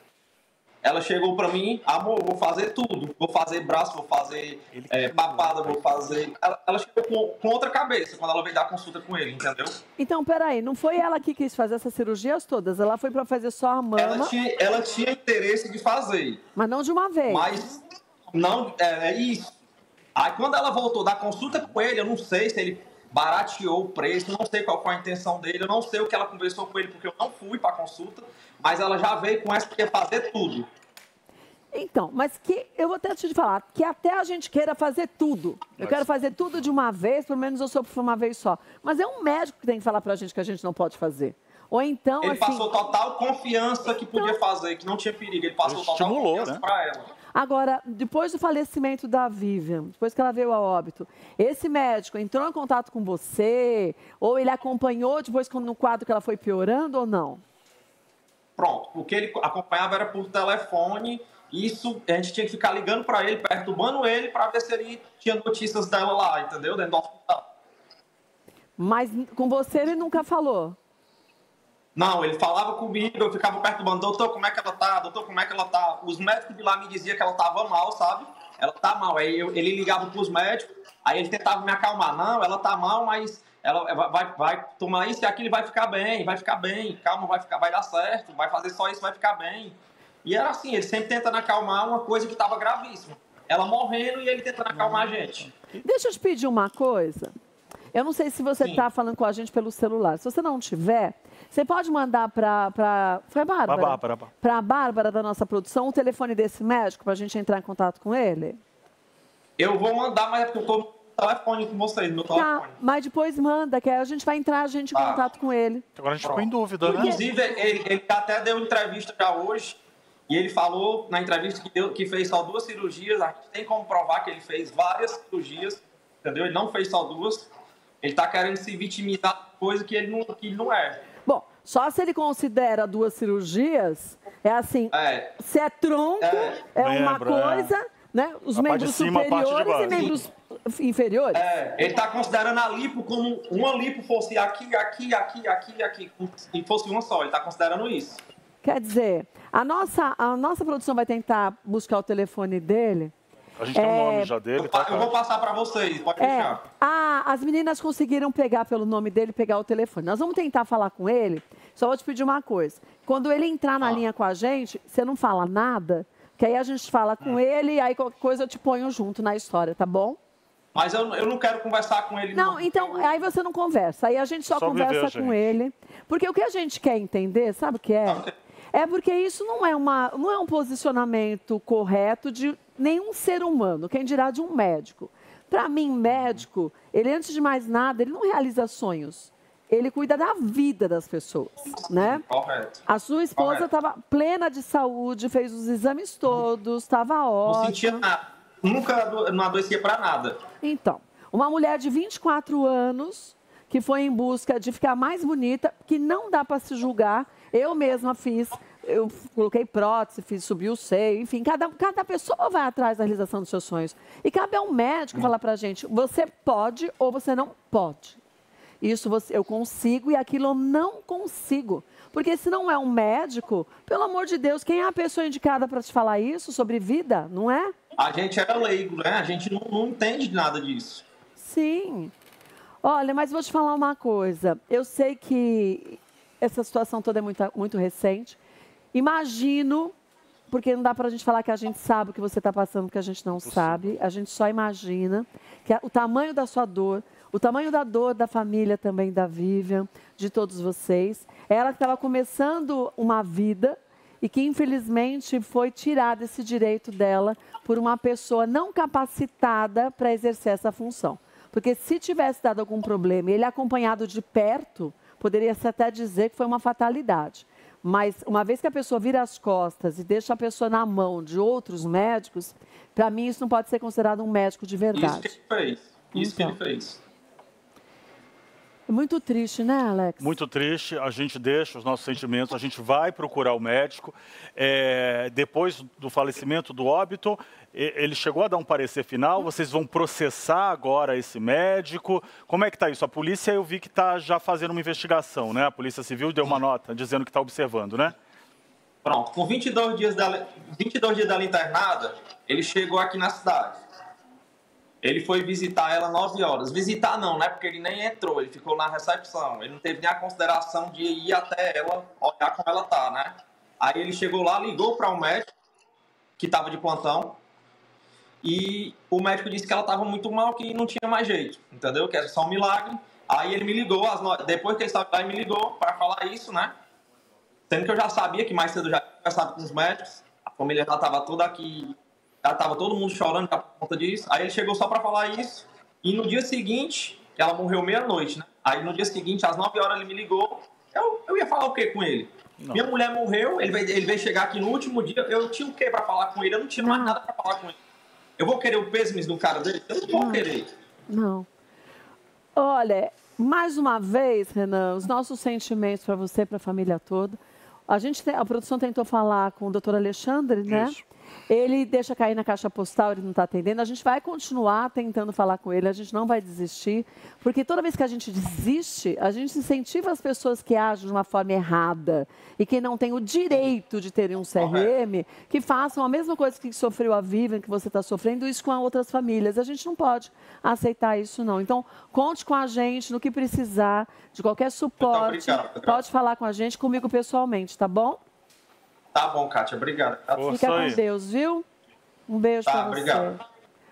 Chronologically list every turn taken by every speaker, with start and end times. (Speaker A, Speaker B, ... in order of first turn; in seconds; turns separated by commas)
Speaker A: 0.8-9.8, Speaker B: 4.7-6.1, Speaker C: 10.0-14.3, Speaker A: 14.0-16.4, Speaker C: 16.6-17.5, Speaker A: 17.3-17.8, Speaker A: 18.3-19.5, Speaker A: 20.1-30.7, Speaker C: 31.7-42.7, Speaker B: 35.8-36.1, Speaker A: 42.2-47.1, Speaker B: 45.6-46.6, Speaker C: 47.3-57.4, Speaker A: 58.6-67.4, Speaker C: 68.8-70.8, Speaker A: 72.0-95.5, Speaker B: 94.7-95.8, Speaker C: 95.8-97.3, Speaker C: 97.9-108.6, Speaker A: 98.6-98.9, Speaker B: 103.7-104.3, Speaker A: 109.6-112.8, Speaker C: 112.3-115.8, Speaker A: 114.9-115.2, Speaker B: 116.0-117.2, Speaker A: 116.2-127.5, Speaker A: 128.0-131.0, Speaker C: 131.2-141.4, Speaker A: 134.9-135.4, Speaker A: 136.2-136.6, Speaker B: 136.8-137.7, Speaker B: 138.5-140.2, Speaker A: 141.3-148.2, Speaker C: 148.6-153.1, Speaker B: 153.6-155.1, Speaker C: 153.7-154.3, Speaker A: 154.6-156.6, Speaker C: 156.2-170.2, Speaker A: 170.7-173.1, Speaker C: 172.3-192.2, Speaker B: 174.5-175.5, Speaker A: 178.0-178.3, Speaker A: 191.9-192.8, Speaker C: 192.9-198.0, Speaker A: 193.4-193.7, Speaker A: 197.4-200.4, Speaker C: 200.6-218.2, Speaker C: 218.8-227.7, Speaker A: 228.0-231.0, Speaker C: 231.4-232.1, Speaker C: 232.8-238.4, Speaker C: 238.9-239.9, Speaker C: 240.5-275.3, Speaker B: 243.4-243.9, Speaker A: 274.9-277.0, Speaker C: 276.1-276.6, Speaker C: 278.9-280.4, Speaker B: 280.2-298.1, Speaker A: 299.0-303.8, Speaker A: 305.0-315.5, Speaker A: 316.4-317.4, Speaker A: 318.4-326.7, Speaker A: 327.7-347.8, Speaker B: 342.6-342.9, Speaker C: 346.8-347.2, Speaker A: 348.4-350.7, Speaker C: 350.1-350.4, Speaker C: 351.1-351.5, Speaker C: 352.6-361.0, Speaker B: 360.7-361.0, Speaker C: 361.5-388.2, Speaker A: 374.6-374.9, Speaker A: 385.0-386.0, Speaker A: 389.1-391.0, Speaker B: 390.3-391.0, Speaker C: 390.4-391.6, Speaker C: 392.3-393.4, Speaker A: 392.6-393.3